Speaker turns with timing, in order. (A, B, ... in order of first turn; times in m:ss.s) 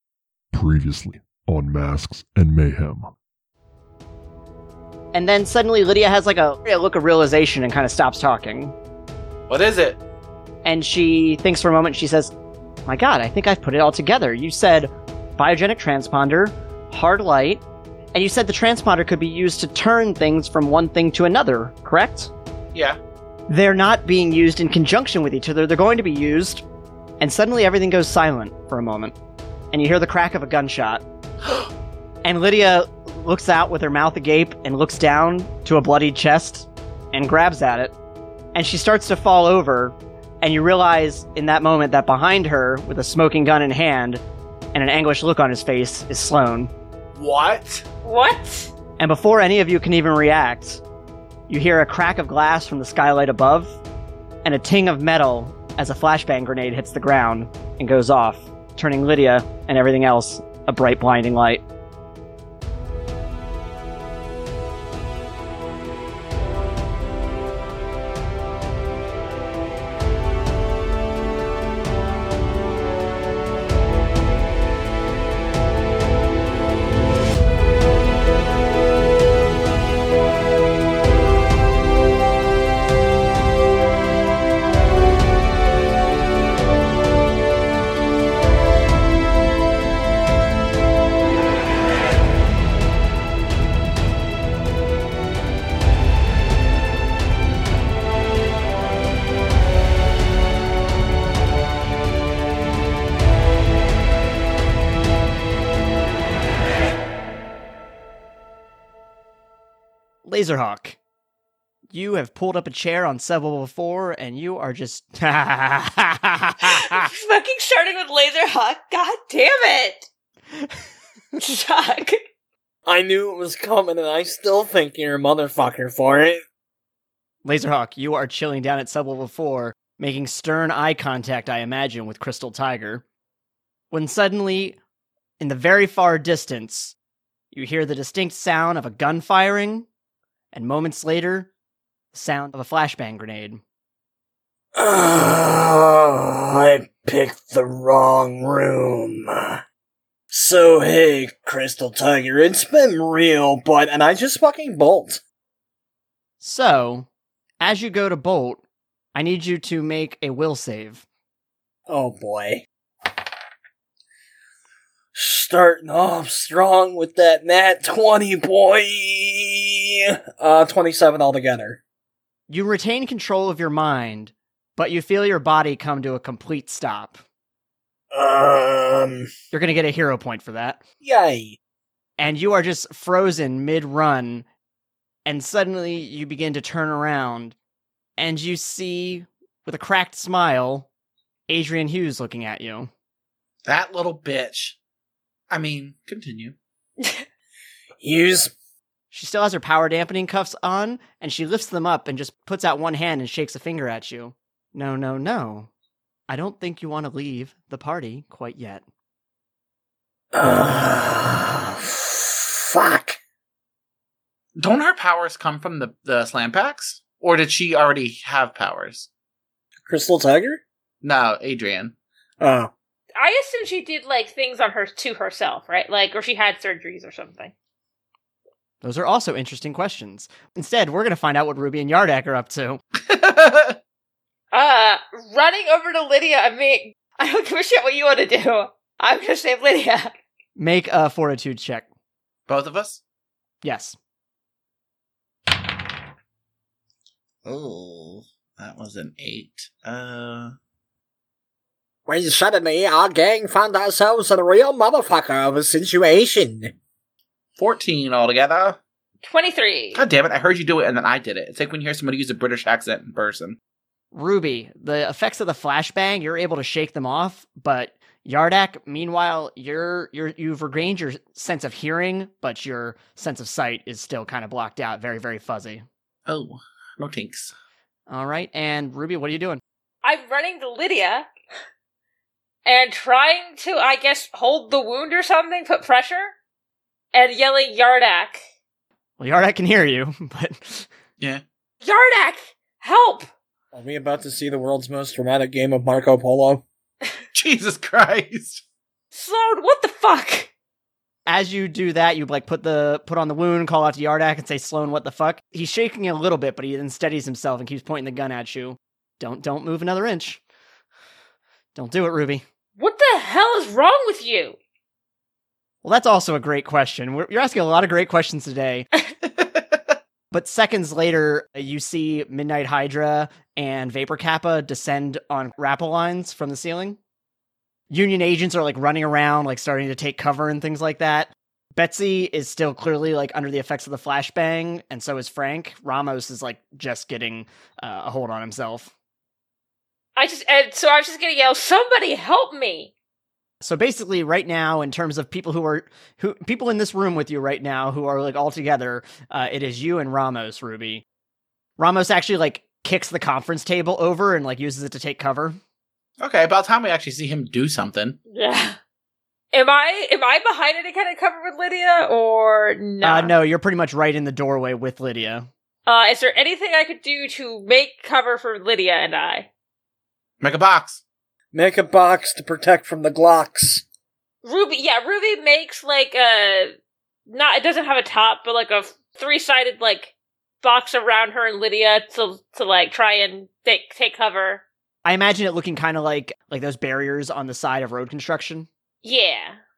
0:00.5-0:03.1 A
0:05.1-0:08.7 B
0:09.5-0:10.0 C
0:10.6-0:12.3 B
0:12.8-0:17.6 B
0:18.1-0:22.3 B
0:23.5-0:26.6 B
0:27.2-0:29.1 B
0:29.7-0:31.0 B
0:32.2-0:37.9 B
0:38.5-0:44.2 B
0:44.7-0:46.7 B
0:47.2-0:47.8 C
0:48.0-0:48.7 D
0:49.0-0:50.8 B
0:51.5-0:53.8 B
0:54.4-1:01.6 B
1:50.2-1:51.0 B
1:51.9-1:57.1 B
1:56.6-2:00.1 D
2:00.5-2:00.8 B
2:01.4-2:02.2 D
2:02.8-2:06.4 E
2:07.4-2:13.0 B
2:13.9-2:14.8 B
2:15.4-2:16.9 B
2:17.5-2:19.9 B
2:20.5-2:21.5 B
2:22.1-2:23.6 B
2:24.8-2:29.6 E
2:30.3-2:35.2 E
2:36.4-2:37.1 B
2:37.6-2:38.6 B
2:39.1-2:41.0 B
2:41.9-2:42.6 E
2:45.1-2:51.8 E
2:52.5-2:57.2 B
2:58.1-2:59.3 E
2:59.5-3:00.8 B
3:01.0-3:01.6 E
3:02.2-3:04.4 B
3:05.2-3:07.6 B
3:08.2-3:10.9 B
3:11.5-3:12.9 B
3:13.6-3:14.8 C
3:15.5-3:16.5 C
3:18.0-3:18.5 E
3:19.1-3:25.7 B
3:26.3-3:28.8 B
3:30.3-3:33.2 E
3:34.6-3:39.1 C
3:39.8-3:40.6 E
3:41.0-3:41.9 C
3:42.4-3:42.7 E
3:43.2-3:47.5 D
3:48.8-3:52.8 B
3:53.0-3:53.8 C
3:54.5-4:00.1 D
4:00.6-4:01.8 B
4:02.5-4:03.0 C
4:03.6-4:04.0 B
4:07.4-4:10.5 C
4:12.0-4:16.7 E
4:17.6-4:18.8 C
4:19.2-4:20.0 D
4:19.9-4:23.6 C
4:24.1-4:35.8 B
4:36.3-4:37.5 C
4:38.1-4:39.6 B
4:40.0-4:41.3 D
4:42.6-4:46.3 D
4:47.1-4:48.4 D
4:49.2-4:50.9 B
4:51.8-4:53.3 D
4:53.7-4:56.6 E
4:57.3-4:58.6 C
4:59.1-5:00.5 D
5:01.2-5:10.4 B
5:11.7-5:12.4 B
5:12.8-5:14.6 D
5:15.8-5:18.9 B
5:19.2-5:20.0 C
5:20.3-5:27.0 B
5:27.9-5:38.9 B
5:40.2-5:42.9 D
5:43.6-5:51.0 B
5:51.8-5:55.6 B
5:56.2-5:58.2 C
5:58.3-5:58.8 D
5:59.5-6:03.3 D
6:03.0-6:05.5 B
6:05.8-6:09.5 D
6:10.4-6:11.0 C
6:11.5-6:13.8 E
6:14.4-6:16.7 D
6:17.3-6:24.6 D
6:25.0-6:28.7 B
6:29.0-6:29.6 D